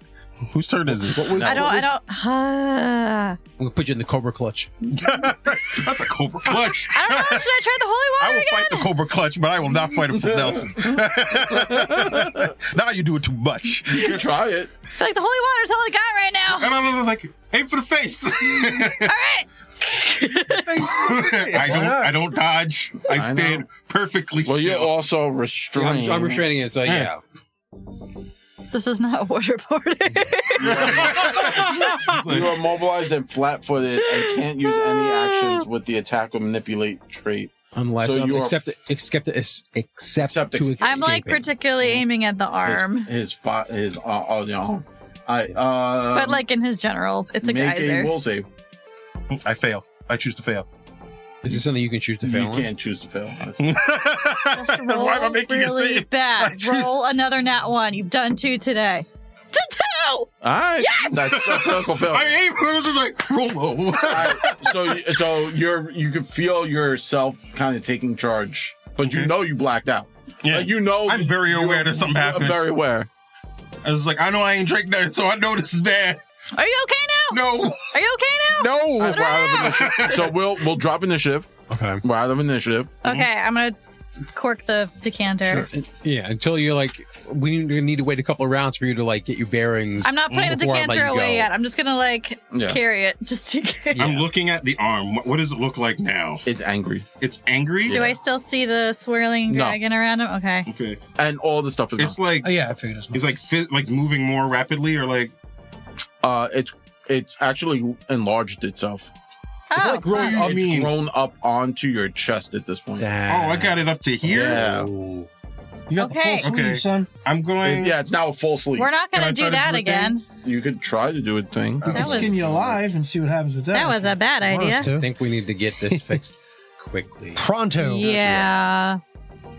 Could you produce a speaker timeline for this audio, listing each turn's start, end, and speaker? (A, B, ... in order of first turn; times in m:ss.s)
0:00.5-0:01.6 A
0:00.9-0:01.9 B
0:01.2-0:01.8 C
0:01.4-0:03.4 D
0:03.6-0:04.7 B
0:04.9-0:07.5 A
0:04.9-0:05.3 D
0:06.6-0:08.9 D
0:08.2-0:14.3 A
0:10.2-0:12.5 C
0:13.9-0:14.7 C
0:15.0-0:16.7 D
0:16.5-0:19.1 A
0:18.8-0:21.2 D
0:20.8-0:24.9 A
0:21.3-0:22.2 E
0:23.1-0:23.7 C
0:24.4-0:26.4 C
0:25.8-0:27.2 B
0:26.8-0:27.1 A
0:28.7-0:32.0 D
0:30.6-0:32.6 A
0:30.6-0:38.6 C
0:34.0-0:35.6 D
0:37.7-0:41.4 B
0:40.2-0:41.1 C
0:40.8-0:43.1 D
0:42.6-0:46.4 C
0:46.1-0:48.1 D
0:47.4-0:48.5 C
0:49.3-0:50.7 A
0:51.4-0:52.7 B
0:52.2-0:53.8 C
0:53.6-0:56.9 A
0:54.4-1:01.4 D
1:00.4-1:02.3 C
1:01.2-1:05.0 A
1:04.0-1:13.1 C
1:09.0-1:09.3 A
1:10.4-1:12.7 A
1:13.8-1:16.2 A
1:16.5-1:20.2 D
1:17.3-1:17.9 A
1:18.6-1:23.0 C
1:18.9-1:20.4 A
1:21.7-1:22.0 B
1:23.0-1:23.8 D
1:24.3-1:25.7 D
1:25.7-1:31.5 B
1:30.0-1:34.1 D
1:30.3-1:30.6 A
1:32.5-1:32.8 C
1:33.9-1:34.2 B
1:34.0-1:36.4 A
1:36.4-1:37.1 C
1:37.2-1:38.0 A
1:37.8-1:38.2 C
1:37.9-1:40.7 D
1:39.5-1:39.8 C
1:40.7-1:41.0 A
1:41.2-1:42.2 C
1:42.0-1:42.5 A
1:42.4-1:43.3 E
1:43.1-1:45.3 A
1:46.2-1:49.1 C
1:49.7-1:50.4 D
1:49.8-1:50.6 B
1:50.1-1:51.0 A
1:50.1-1:53.1 C
1:53.0-1:55.3 B
1:53.3-1:54.7 A
1:54.3-1:54.9 C
1:55.9-1:57.1 E
1:56.0-1:56.5 D
1:56.4-1:58.0 A
1:57.6-2:02.3 C
1:58.8-2:00.2 D
2:01.8-2:02.8 A
2:01.8-2:05.1 E
2:01.9-2:02.5 D
2:03.7-2:04.9 D
2:04.9-2:07.4 B
2:05.9-2:06.2 E
2:07.4-2:08.0 E
2:07.8-2:09.0 D
2:08.0-2:08.5 C